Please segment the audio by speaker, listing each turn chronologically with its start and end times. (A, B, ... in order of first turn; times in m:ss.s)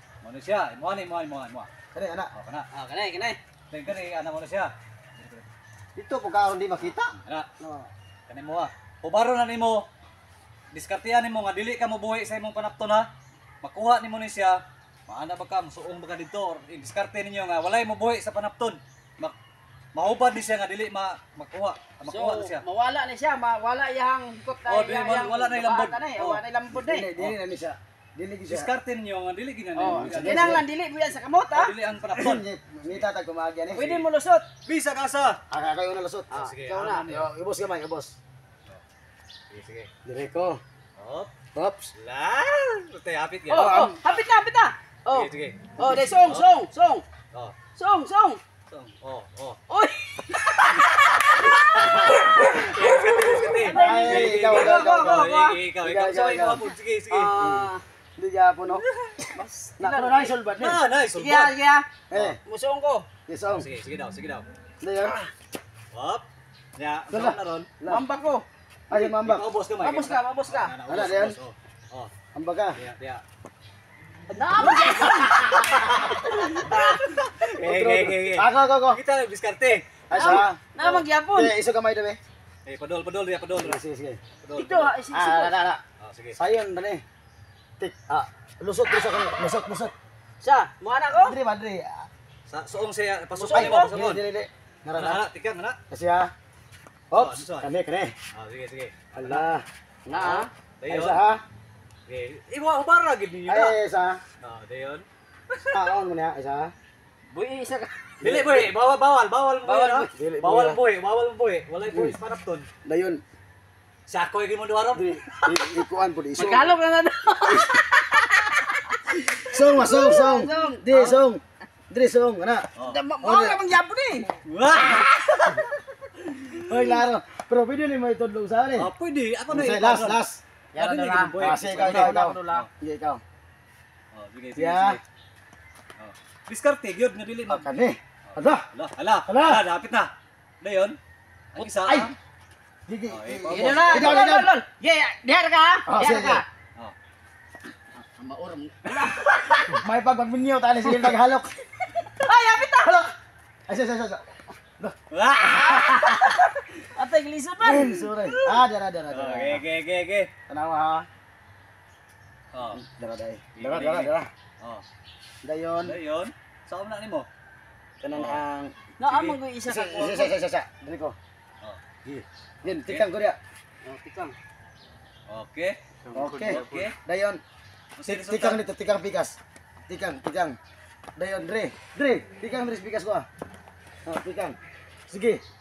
0:00.2-0:01.7 A
0:01.9-0:02.3 B
0:02.3-0:02.7 A
0:02.7-0:03.4 C
0:03.7-0:05.4 A
0:06.0-0:07.9 B
0:07.1-0:07.5 A
0:08.3-0:09.8 A
0:10.7-0:13.1 A
0:13.6-0:19.4 A
0:19.9-0:22.6 A
0:22.1-0:27.1 C
0:24.7-0:26.4 A
0:26.7-0:28.7 B
0:28.5-0:30.6 A
0:29.8-0:31.7 C
0:29.9-0:30.6 B
0:31.5-0:33.0 A
0:32.1-0:33.9 B
0:33.7-0:34.5 C
0:34.6-0:35.4 A
0:35.5-0:36.3 B
0:36.3-0:37.3 A
0:36.3-0:37.1 C
0:37.0-0:38.1 B
0:39.5-0:39.9 A
0:40.0-0:40.6 B
0:41.0-0:41.3 A
0:41.5-0:41.9 B
0:41.9-0:43.9 A
0:43.5-0:47.0 C
0:43.5-0:43.9 B
0:45.1-0:46.5 A
0:47.7-0:48.4 C
0:48.7-0:49.6 A
0:49.7-0:55.6 C
0:51.8-0:52.2 B
0:51.8-0:57.4 A
0:53.7-0:56.6 B
0:57.1-0:57.8 C
0:57.3-0:58.8 B
0:58.8-0:59.3 A
0:59.3-1:00.3 C
0:59.8-1:00.8 B
1:00.6-1:01.5 A
1:01.1-1:01.9 C
1:02.1-1:02.4 B
1:02.4-1:03.1 C
1:03.3-1:03.7 B
1:03.5-1:04.5 A
1:04.8-1:05.2 B
1:05.9-1:06.2 A
1:06.8-1:07.7 A
1:07.1-1:08.0 B
1:07.9-1:08.4 C
1:08.9-1:09.4 B
1:08.9-1:12.1 A
1:09.8-1:10.7 C
1:10.9-1:11.4 B
1:12.3-1:12.8 B
1:12.8-1:13.2 A
1:14.3-1:16.9 C
1:14.6-1:16.8 B
1:14.7-1:21.0 A
1:17.5-1:19.0 B
1:20.1-1:20.6 B
1:20.1-1:21.5 C
1:21.3-1:22.2 B
1:22.6-1:23.8 A
1:23.6-1:24.2 B
1:24.4-1:24.9 A
1:24.6-1:25.5 C
1:25.1-1:25.8 B
1:26.0-1:26.4 A
1:26.4-1:27.0 B
1:27.8-1:29.9 B
1:30.4-1:31.4 C
1:31.2-1:32.1 B
1:32.5-1:34.2 A
1:33.4-1:35.2 B
1:33.4-1:33.8 C
1:34.9-1:35.8 A
1:35.9-1:36.3 B
1:37.1-1:38.1 B
1:37.1-1:37.7 A
1:38.3-1:39.4 A
1:39.1-1:41.4 B
1:40.1-1:40.5 C
1:40.8-1:41.2 A
1:42.1-1:43.8 A
1:43.5-1:44.2 B
1:44.4-1:45.9 A
1:45.7-1:46.7 B
1:47.3-1:47.9 C
1:48.2-1:48.7 B
1:48.2-1:52.7 A
1:49.6-1:50.1 C
1:50.1-1:50.8 B
1:51.9-1:52.2 B
1:52.8-1:53.2 B
1:54.1-1:55.4 A
1:54.9-1:56.8 B
1:56.4-2:00.8 C
1:59.4-2:02.7 B
1:59.5-1:59.8 A
2:00.9-2:01.2 A
2:02.8-2:04.4 C
2:03.2-2:03.6 B
2:04.4-2:05.6 A
2:06.6-2:08.9 B
2:08.8-2:10.2 A
2:09.5-2:10.4 B
2:10.7-2:12.6 C
2:10.7-2:12.7 A
2:11.3-2:13.2 B
2:14.1-2:15.0 A
2:14.6-2:15.0 B
2:16.0-2:17.7 A
2:17.5-2:18.6 B
2:18.3-2:20.1 A
2:19.2-2:19.6 B
2:20.6-2:21.0 A
2:21.5-2:22.1 A
2:21.6-2:22.1 B
2:22.9-2:24.5 B
2:23.1-2:24.3 A
2:23.5-2:26.4 C
2:25.8-2:26.4 B
2:28.0-2:29.8 C
2:29.7-2:31.6 B
2:32.2-2:33.0 C
2:32.8-2:33.1 B
2:33.7-2:34.2 B
2:35.1-2:36.3 A
2:35.5-2:36.1 B
2:35.6-2:38.1 C
2:37.6-2:39.6 B
2:38.2-2:40.3 A
2:40.5-2:41.0 B
2:42.5-2:42.8 A
2:42.7-2:44.3 B
2:43.6-2:44.8 A
2:45.4-2:46.0 B
2:45.8-2:47.3 A
2:48.0-2:48.7 B
2:48.1-2:48.4 A
2:49.0-2:50.3 C
2:49.0-2:49.4 A
2:49.7-2:51.2 B
2:52.0-2:53.4 B
2:52.7-2:53.1 A
2:53.8-2:54.3 C
2:55.3-2:57.0 A
2:56.1-2:57.4 B
2:58.0-2:58.6 A
2:58.0-2:59.4 B
2:59.9-3:00.6 B
3:01.2-3:03.3 B
3:04.0-3:04.6 B
3:05.1-3:05.4 B